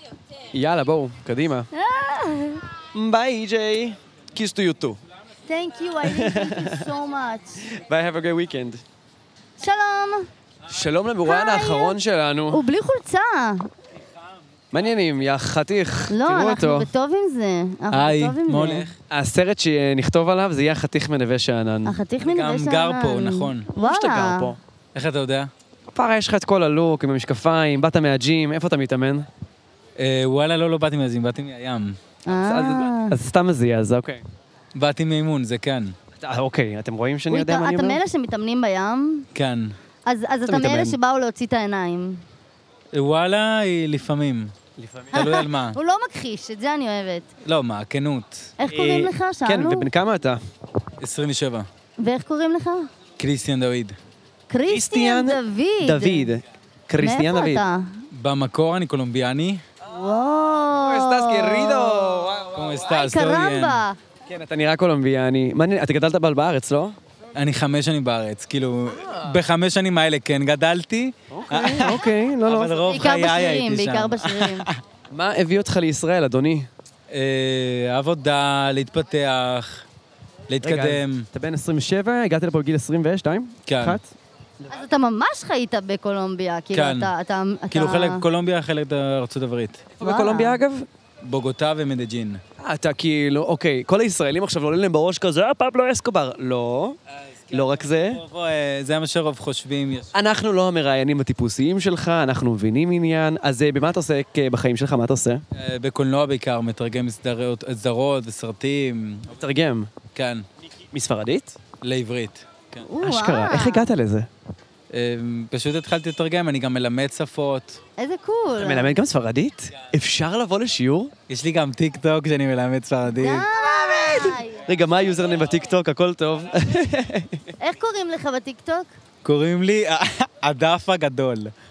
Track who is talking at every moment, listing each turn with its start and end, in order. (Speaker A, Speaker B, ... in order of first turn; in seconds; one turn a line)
Speaker A: 0.5-1.7
Speaker B: 1.7-2.6
Speaker A: 2.9-5.0
Speaker B: 5.5-7.6
Speaker A: 6.0-6.9
Speaker A: 7.7-8.8
Speaker B: 9.6-10.3
Speaker A: 10.7-12.6
Speaker B: 11.2-12.0
Speaker B: 12.5-13.7
Speaker A: 14.7-16.9
Speaker B: 16.1-18.9
Speaker C: 17.9-18.9
Speaker A: 19.1-22.0
Speaker B: 21.9-24.5
Speaker C: 22.2-23.7
Speaker A: 23.7-24.6
Speaker C: 24.9-25.5
Speaker A: 25.9-29.3
Speaker C: 30.0-32.0
Speaker B: 32.2-33.1
Speaker A: 32.4-34.2
Speaker C: 34.7-35.9
Speaker A: 36.2-38.0
Speaker B: 37.3-39.3
Speaker C: 39.3-39.7
Speaker B: 40.0-42.2
Speaker A: 40.5-41.0
Speaker C: 42.9-44.5
Speaker A: 44.8-45.3
Speaker B: 45.1-47.3
Speaker C: 45.1-45.8
Speaker C: 47.4-48.5
Speaker B: 48.6-49.9
Speaker A: 48.7-50.4
Speaker C: 51.0-51.7
Speaker B: 52.0-52.9
Speaker C: 53.2-54.0
Speaker B: 54.5-56.3
Speaker A: 54.7-57.6
Speaker B: 57.0-57.9
Speaker C: 58.1-59.6
Speaker B: 59.9-64.0
Speaker A: 60.7-62.6
Speaker C: 62.5-63.8
Speaker A: 64.3-67.0
Speaker C: 67.3-74.8
Speaker A: 71.3-72.8
Speaker B: 72.8-74.7
Speaker A: 75.1-76.7
Speaker C: 77.1-79.8
Speaker C: 80.5-81.3
Speaker A: 80.6-84.1
Speaker C: 83.7-84.0
Speaker B: 84.7-88.2
Speaker C: 86.7-87.1
Speaker C: 87.7-89.9
Speaker A: 90.0-90.9
Speaker B: 90.0-90.6
Speaker C: 91.2-92.4
Speaker A: 92.6-97.0
Speaker C: 97.5-100.1
Speaker A: 97.5-98.2
Speaker A: 100.1-105.4
Speaker C: 105.5-109.3
Speaker A: 109.3-109.9
Speaker C: 110.1-110.4
Speaker A: 110.9-111.6
Speaker C: 111.8-112.8
Speaker B: 112.8-113.9
Speaker A: 113.0-114.3
Speaker C: 114.9-117.8
Speaker B: 118.0-118.9
Speaker A: 118.6-121.1
Speaker C: 121.3-123.5
Speaker B: 123.2-124.6
Speaker A: 123.6-127.5
Speaker B: 127.6-128.9
Speaker C: 129.2-131.5